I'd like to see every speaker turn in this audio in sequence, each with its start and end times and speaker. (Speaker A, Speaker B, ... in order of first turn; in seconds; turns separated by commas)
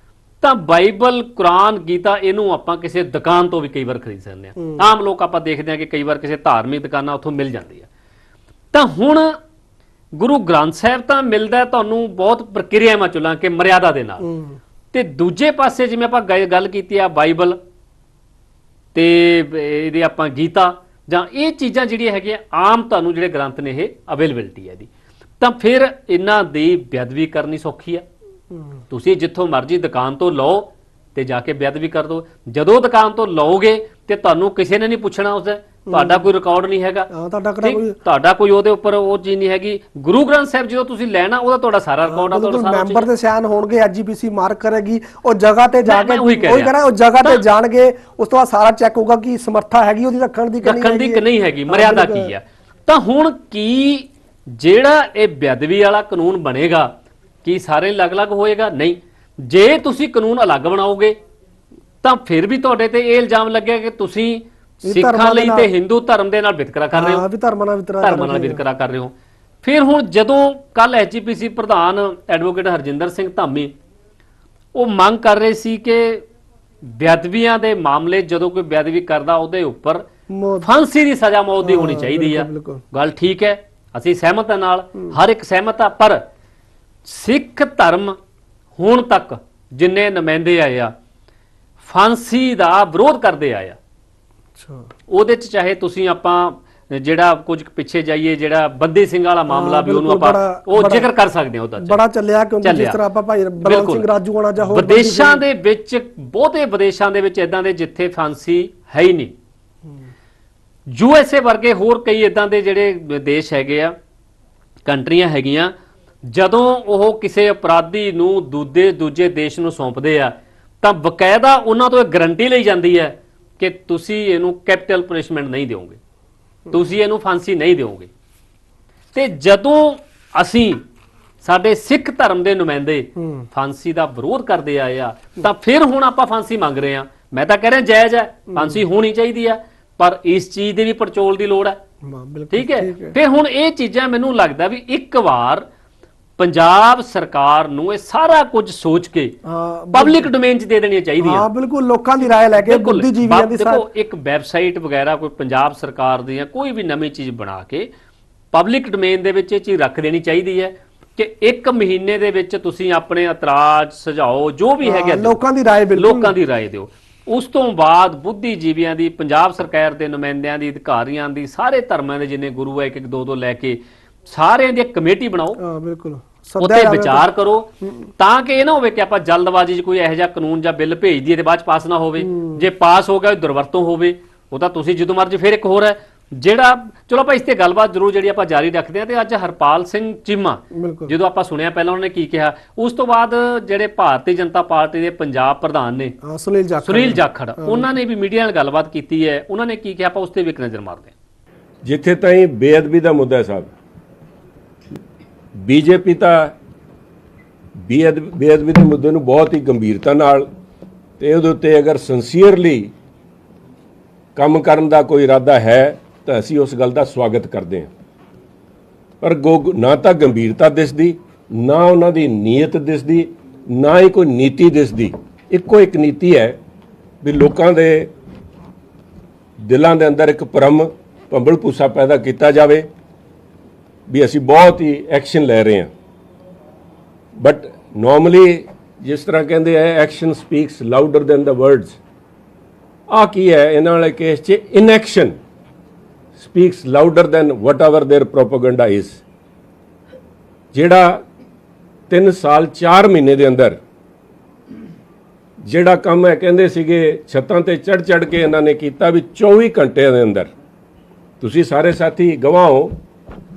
Speaker A: 0.4-7.9, Speaker B: 4.6-4.8, Speaker A: 8.7-9.4, Speaker A: 10.1-14.3, Speaker B: 14.2-14.6, Speaker A: 14.9-17.6, Speaker A: 18.9-24.9, Speaker A: 25.4-28.0, Speaker B: 28.5-28.8, Speaker A: 28.9-37.1, Speaker B: 35.9-36.3, Speaker B: 37.1-38.0, Speaker A: 37.6-43.1, Speaker B: 42.0-52.3, Speaker A: 45.9-47.4, Speaker A: 50.6-56.9, Speaker A: 57.4-61.2, Speaker A: 62.0-67.2, Speaker B: 64.9-65.7, Speaker B: 66.9-68.6, Speaker A: 68.0-73.7, Speaker A: 74.7-76.2, Speaker A: 76.8-80.1, Speaker B: 80.3-80.7, Speaker A: 80.6-86.2, Speaker B: 81.6-82.8, Speaker A: 87.0-88.2, Speaker A: 88.8-90.9, Speaker A: 91.8-93.8, Speaker B: 94.5-94.9, Speaker A: 95.1-102.0, Speaker B: 99.5-101.1, Speaker B: 101.8-105.4, Speaker A: 102.6-103.0, Speaker A: 103.6-104.1, Speaker A: 104.6-109.3, Speaker A: 110.9-114.0, Speaker A: 114.8-115.7, Speaker A: 116.3-126.0, Speaker A: 126.7-128.1, Speaker A: 129.1-130.8, Speaker A: 131.4-141.8, Speaker B: 133.2-133.5, Speaker B: 138.5-138.8, Speaker B: 142.0-143.2, Speaker A: 142.5-145.7, Speaker A: 146.4-149.4, Speaker B: 149.4-150.3, Speaker A: 149.9-151.5, Speaker B: 151.2-153.8, Speaker A: 152.5-157.9, Speaker A: 158.5-165.4, Speaker B: 164.8-166.3, Speaker A: 165.9-175.6, Speaker B: 175.6-177.2, Speaker A: 176.6-196.2, Speaker B: 177.8-178.1, Speaker B: 182.2-182.6, Speaker B: 190.7-191.1, Speaker B: 196.2-197.9, Speaker A: 196.8-201.1, Speaker C: 201.8-203.7, Speaker C: 205.5-206.5, Speaker C: 207.8-210.5, Speaker C: 211.2-212.9, Speaker C: 214.3-217.9, Speaker C: 219.2-226.6, Speaker C: 227.2-228.1, Speaker C: 229.6-232.9, Speaker C: 234.1-235.9, Speaker C: 237.4-242.0, Speaker C: 243.1-245.4, Speaker C: 246.4-249.2, Speaker C: 250.7-251.2, Speaker C: 252.1-253.8, Speaker C: 255.6-260.5, Speaker C: 261.4-263.0